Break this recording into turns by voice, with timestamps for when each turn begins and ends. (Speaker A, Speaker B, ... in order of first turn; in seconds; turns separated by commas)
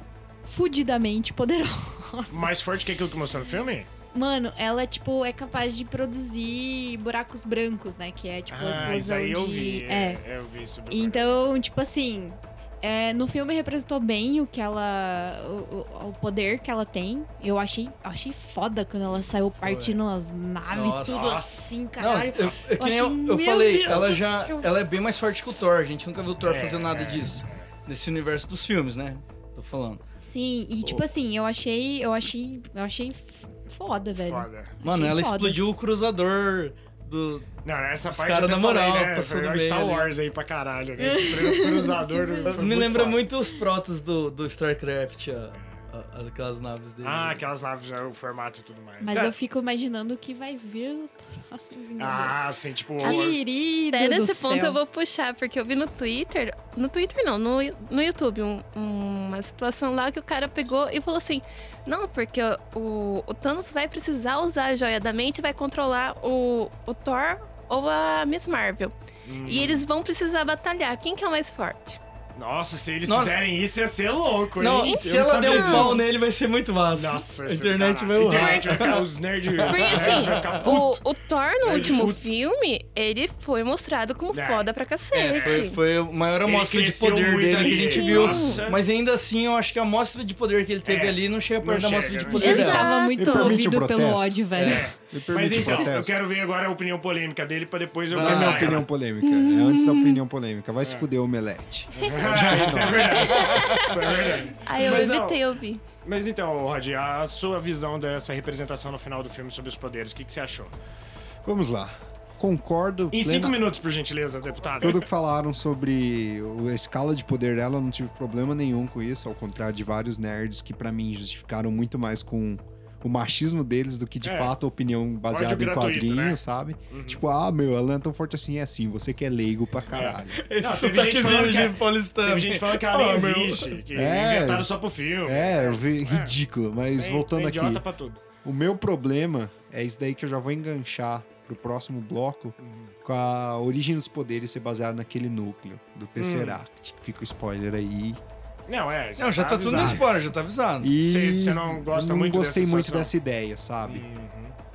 Speaker A: 0.4-2.5, Speaker B: 2.3-3.9, Speaker A: 4.1-10.2, Speaker B: 8.5-11.4, Speaker A: 10.9-24.7, Speaker C: 19.6-20.0, Speaker C: 20.7-21.4, Speaker B: 21.1-21.7, Speaker C: 22.0-30.0, Speaker B: 26.4-27.7, Speaker A: 30.2-35.6, Speaker B: 34.2-34.8, Speaker C: 34.8-37.5, Speaker B: 37.6-43.3, Speaker C: 38.1-40.1, Speaker A: 41.0-42.6, Speaker C: 42.5-47.4, Speaker B: 47.0-49.2, Speaker A: 49.0-52.4, Speaker B: 52.0-53.4, Speaker A: 53.0-54.8, Speaker D: 53.9-72.0, Speaker B: 69.2-69.8, Speaker B: 72.4-76.0, Speaker C: 73.0-73.4, Speaker C: 74.6-80.7, Speaker D: 74.8-76.0, Speaker B: 76.9-81.0, Speaker D: 78.3-78.5, Speaker D: 79.7-85.8, Speaker B: 81.6-82.3, Speaker B: 84.3-84.7, Speaker C: 85.1-92.9, Speaker B: 85.3-85.7, Speaker B: 86.4-88.8, Speaker D: 87.6-88.7, Speaker B: 90.8-92.8, Speaker D: 92.3-93.6, Speaker A: 92.4-94.9, Speaker E: 93.2-96.2, Speaker C: 94.5-94.9, Speaker B: 94.6-98.9, Speaker C: 98.1-98.9, Speaker E: 98.1-103.6, Speaker D: 99.2-100.2, Speaker D: 102.0-102.3, Speaker B: 102.0-105.4, Speaker C: 102.3-103.2, Speaker D: 103.1-105.8, Speaker B: 106.0-110.7, Speaker E: 111.4-113.6, Speaker B: 113.1-115.1, Speaker E: 114.8-130.4, Speaker B: 124.2-124.5, Speaker B: 125.3-127.2, Speaker B: 129.9-136.3, Speaker C: 130.4-133.8, Speaker E: 133.9-134.7, Speaker E: 135.3-137.8, Speaker B: 137.0-138.2, Speaker E: 138.4-148.2, Speaker B: 142.6-142.9, Speaker B: 146.2-146.6, Speaker B: 148.7-150.2, Speaker C: 149.2-150.9, Speaker E: 149.7-150.0, Speaker E: 150.8-154.1, Speaker B: 151.0-153.1, Speaker B: 153.8-154.6